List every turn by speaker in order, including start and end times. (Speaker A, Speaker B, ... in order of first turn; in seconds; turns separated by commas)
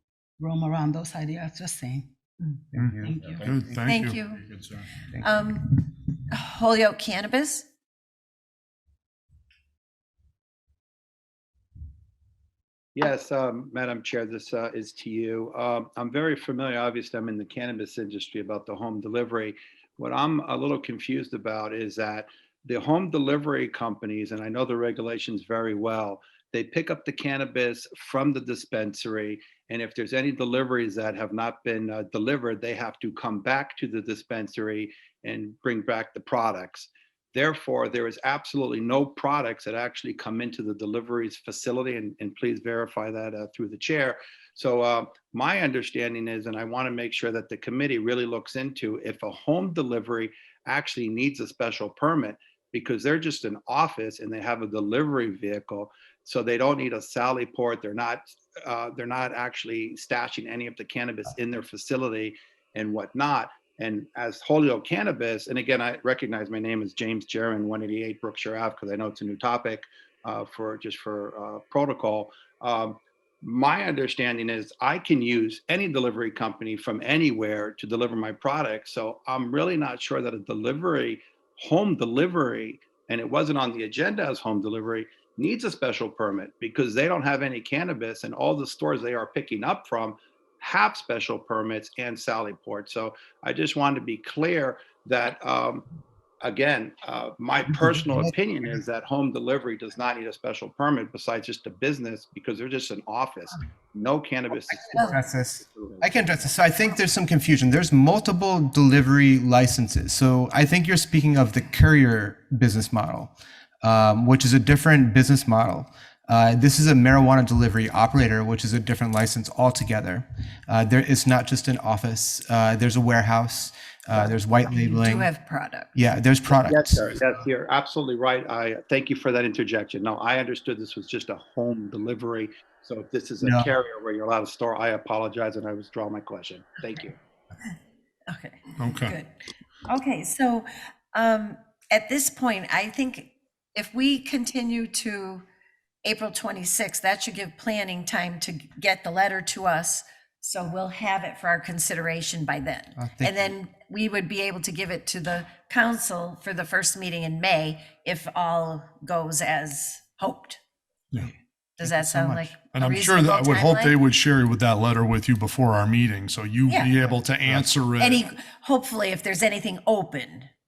Speaker A: 0.4-2.1, Speaker B: 2.7-3.8, Speaker C: 2.8-4.2, Speaker A: 3.0-3.4, Speaker D: 3.8-4.6, Speaker D: 5.2-7.7, Speaker E: 12.9-95.9, Speaker E: 96.4-106.1, Speaker B: 97.9-98.3, Speaker B: 104.5-125.3, Speaker D: 124.7-125.9, Speaker B: 125.9-127.3, Speaker E: 126.5-137.2, Speaker B: 133.4-133.7, Speaker D: 138.3-139.3, Speaker C: 138.8-139.2, Speaker D: 139.9-145.4, Speaker D: 146.0-160.6, Speaker B: 153.0-153.5, Speaker D: 161.8-163.9, Speaker B: 161.8-162.5, Speaker C: 162.7-168.2, Speaker D: 166.7-170.5